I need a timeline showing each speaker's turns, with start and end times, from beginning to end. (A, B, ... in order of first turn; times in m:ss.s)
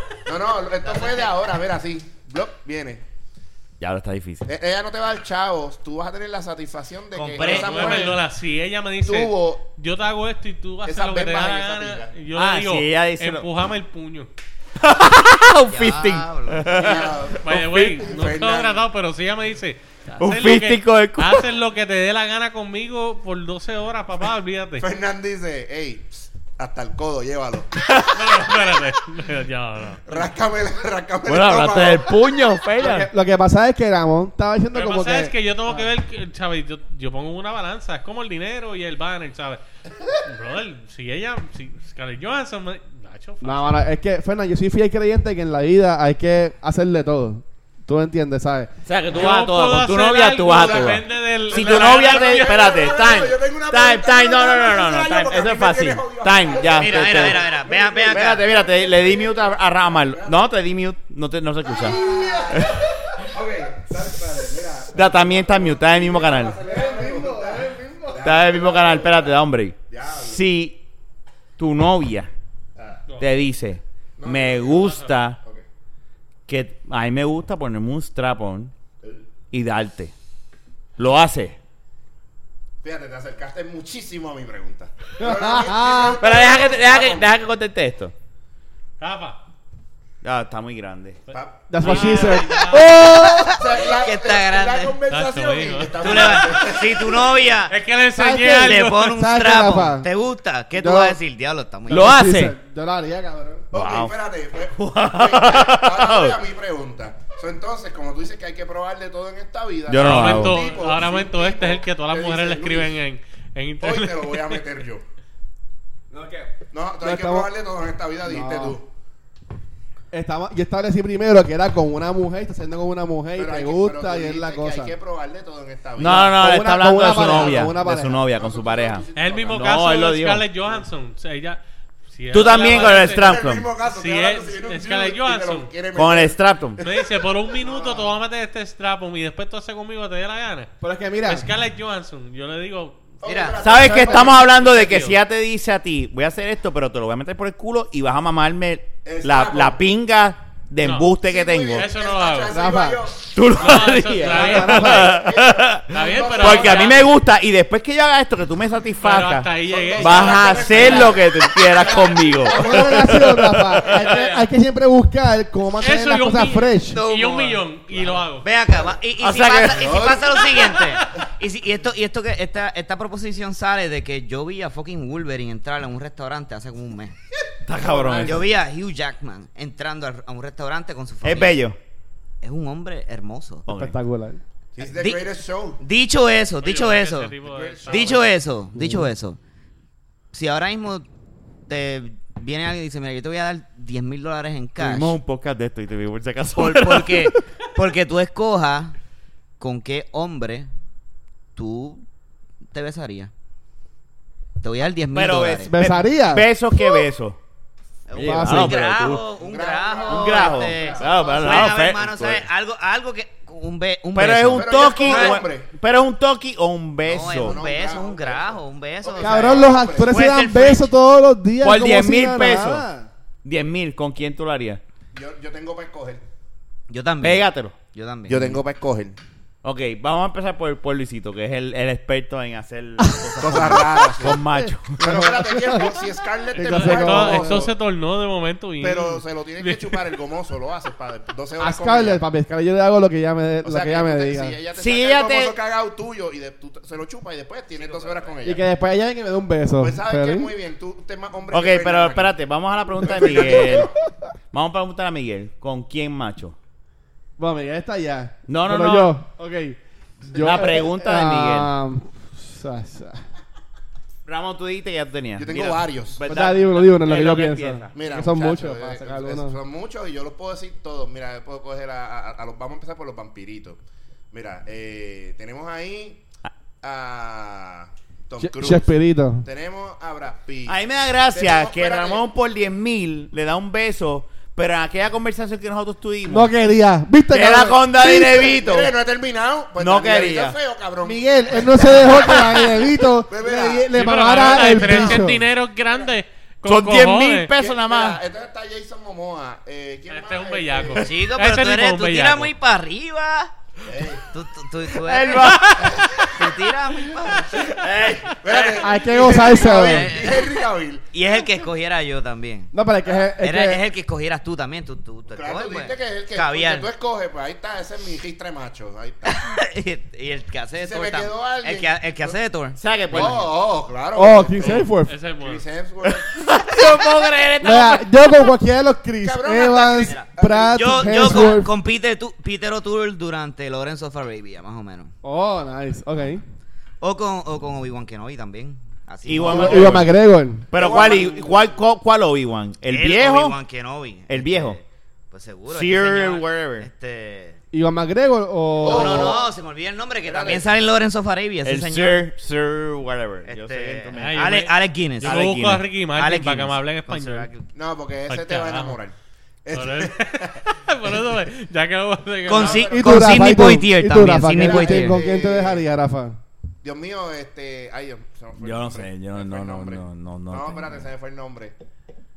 0:00.3-0:03.0 A
0:00.9-0:01.3 B
0:03.8-0:04.5 C
0:04.5-0:08.2 A
0:07.1-0:08.2 B
0:07.4-0:14.3 D
0:09.0-0:09.6 A
0:10.8-0:12.2 A
0:12.4-0:13.5 C
0:14.8-0:18.1 C
0:15.7-0:16.8 B
0:16.7-0:18.8 A
0:16.9-0:24.9 D
0:20.2-0:21.5 C
0:24.8-0:27.7 A
0:27.8-0:28.2 C
0:28.1-0:30.3 D
0:30.1-0:32.2 A
0:31.3-0:33.1 C
0:32.8-0:35.9 E
0:34.7-0:39.6 D
0:40.2-0:43.8 D
0:43.4-0:48.7 E
0:48.8-0:57.5 C
0:49.1-0:53.0 D
0:50.5-1:00.5 A
0:56.7-0:58.5 B
0:58.1-1:02.8 C
1:01.6-1:09.3 A
1:01.8-1:02.8 E
1:04.9-1:06.6 C
1:06.6-1:08.3 E
1:08.2-1:10.8 C
1:09.9-1:10.4 A
1:11.6-1:12.3 C
1:12.8-1:13.0 A
1:13.2-1:15.4 C
1:14.2-1:15.6 A
1:14.7-1:15.1 D
1:16.5-1:18.7 C
1:19.5-1:20.1 C
1:21.0-1:21.6 C
1:22.8-1:27.3 A
1:25.2-1:26.2 E
1:26.2-1:28.1 C
1:29.0-1:29.4 D
1:30.2-1:31.2 C
1:31.3-1:33.0 D
1:31.3-1:32.5 A
1:31.7-1:33.5 E
1:32.6-1:35.0 B
1:33.5-1:37.3 A
1:35.1-1:37.0 D
1:36.0-1:37.8 B
1:37.7-1:39.0 D
1:38.2-1:40.1 E
1:38.6-1:42.2 B
1:40.8-1:41.2 E
1:41.9-1:43.7 E
1:41.9-1:42.6 C
1:43.7-1:53.0 A
1:43.7-1:44.1 C
1:44.8-1:46.4 C
1:49.9-1:50.6 C
1:50.0-1:54.6 D
1:53.8-1:55.0 A
1:56.1-1:57.5 E
1:56.7-1:58.9 A
1:58.2-1:58.8 E
2:00.1-2:05.0 E
2:03.4-2:06.4 A
2:06.0-2:08.2 E
2:06.0-2:10.5 C
2:07.1-2:09.8 A
2:09.2-2:15.7 D
2:12.3-2:13.7 C
2:12.5-2:18.1 A
2:15.9-2:16.8 C
2:16.8-2:20.7 D
2:20.8-2:21.5 E
2:21.2-2:23.1 D
2:23.2-2:24.6 A
2:23.2-2:23.6 B
2:23.6-2:31.9 C
2:23.8-2:25.2 D
2:29.0-2:29.8 A
2:30.8-2:31.1 D
2:31.2-2:37.0 A
2:31.7-2:32.6 D
2:32.5-2:33.0 E
2:33.3-2:44.1 C
2:33.6-2:35.1 D
2:34.2-2:35.2 E
2:35.9-2:37.0 D
2:39.0-2:41.1 D
2:39.6-2:42.9 A
2:40.7-2:41.2 E
2:42.4-2:47.0 E
2:43.9-2:44.4 D
2:45.8-2:48.5 D
2:46.9-2:47.6 B
2:48.4-2:57.1 B
2:49.2-2:50.3 C
2:49.8-2:50.6 A
2:57.7-2:58.5 C
2:57.8-2:58.5 E
2:58.2-3:01.6 B
3:01.2-3:01.8 C
3:02.4-3:03.7 B
3:03.7-3:04.0 C
3:03.7-3:04.4 E
3:04.8-3:05.8 A
3:04.8-3:05.2 B
3:05.8-3:09.4 B
3:06.6-3:08.3 D
3:07.4-3:08.3 A
3:08.8-3:09.1 E
3:10.3-3:11.1 B
3:11.7-3:15.2 B
3:14.8-3:17.4 C
3:16.6-3:19.0 B
3:19.6-3:20.7 B
3:21.6-3:22.0 B
3:22.7-3:23.3 B
3:24.6-3:25.7 B
3:25.1-3:27.4 C
3:25.6-3:26.5 E
3:28.1-3:35.4 B
3:28.2-3:28.8 E
3:28.2-3:29.2 C
3:29.3-3:31.7 A
3:30.1-3:32.4 C
3:34.1-3:37.6 C
3:34.5-3:35.7 A
3:37.1-3:40.9 B
3:37.3-3:40.1 A
3:39.2-3:43.1 E
3:41.6-3:42.8 C
3:43.4-3:44.8 C
3:45.1-3:46.3 A
3:46.9-3:48.6 B
3:47.2-3:47.8 C
3:48.3-3:49.2 A
3:49.6-3:55.3 C
3:53.0-3:56.0 E
3:53.4-3:54.4 A
3:55.0-3:57.7 A
3:56.5-3:57.7 E
3:56.6-4:00.0 D
3:58.8-4:02.2 A
4:01.6-4:04.6 E
4:03.6-4:08.7 A
4:04.7-4:05.6 C
4:07.7-4:08.4 B
4:08.4-4:10.5 E
4:09.8-4:12.3 A
4:11.5-4:13.9 C
4:13.0-4:13.9 A
4:13.1-4:13.9 E
4:14.5-4:16.6 C
4:17.4-4:23.2 E
4:18.5-4:19.2 C
4:20.4-4:21.7 C
4:24.2-4:27.9 C
4:25.4-4:26.4 A
4:26.3-4:29.6 E
4:27.9-4:33.8 A
4:34.3-4:36.2 A
4:36.8-4:38.9 A
4:38.4-4:39.4 E
4:39.4-4:40.8 A
4:40.7-4:46.5 C
4:41.3-4:42.2 A
4:46.2-4:48.4 E
4:47.3-4:49.0 C
4:48.0-4:56.1 A
4:49.8-4:50.6 C
4:51.0-4:55.4 E
4:53.9-4:57.5 D
4:56.7-4:58.2 C
4:57.6-5:01.0 A
5:00.1-5:02.5 D
5:01.0-5:03.5 B
5:03.9-5:04.2 A
5:04.3-5:05.6 B
5:04.9-5:06.5 C
5:06.2-5:07.6 B
5:07.6-5:08.4 C
5:08.2-5:11.0 A
5:08.8-5:10.2 E
5:09.5-5:10.5 B
5:11.1-5:12.7 B
5:12.7-5:13.8 E
5:13.4-5:16.9 B
5:15.3-5:19.5 A
5:19.2-5:23.5 B
5:20.8-5:22.4 A
5:22.8-5:23.4 C
5:23.1-5:26.3 A
5:24.2-5:25.2 E
5:25.1-5:25.6 D
5:26.0-5:28.1 C
5:27.6-5:31.7 E
5:29.2-5:31.5 A
5:30.0-5:35.1 B
5:35.2-5:36.4 E
5:37.0-5:40.0 B
5:39.3-5:40.1 C
5:39.4-5:40.0 A
5:39.4-5:40.7 E
5:40.7-5:43.6 C
5:40.7-5:41.7 A
5:42.9-5:47.6 B
5:44.3-5:44.8 C
5:45.7-5:46.9 C
5:47.7-5:49.4 E
5:48.8-5:49.5 A
5:48.8-5:52.3 B
5:50.2-5:50.8 A
5:51.6-5:54.5 C
5:53.5-5:55.4 B
5:54.2-5:57.5 D
5:55.2-5:55.9 C
5:56.2-5:57.7 B
5:57.7-6:00.6 A
5:58.3-5:59.0 D
5:59.7-6:03.0 D
6:02.5-6:05.2 B
6:02.5-6:03.4 A
6:02.9-6:06.4 E
6:04.5-6:05.9 A
6:06.8-6:11.7 A
6:08.6-6:11.0 C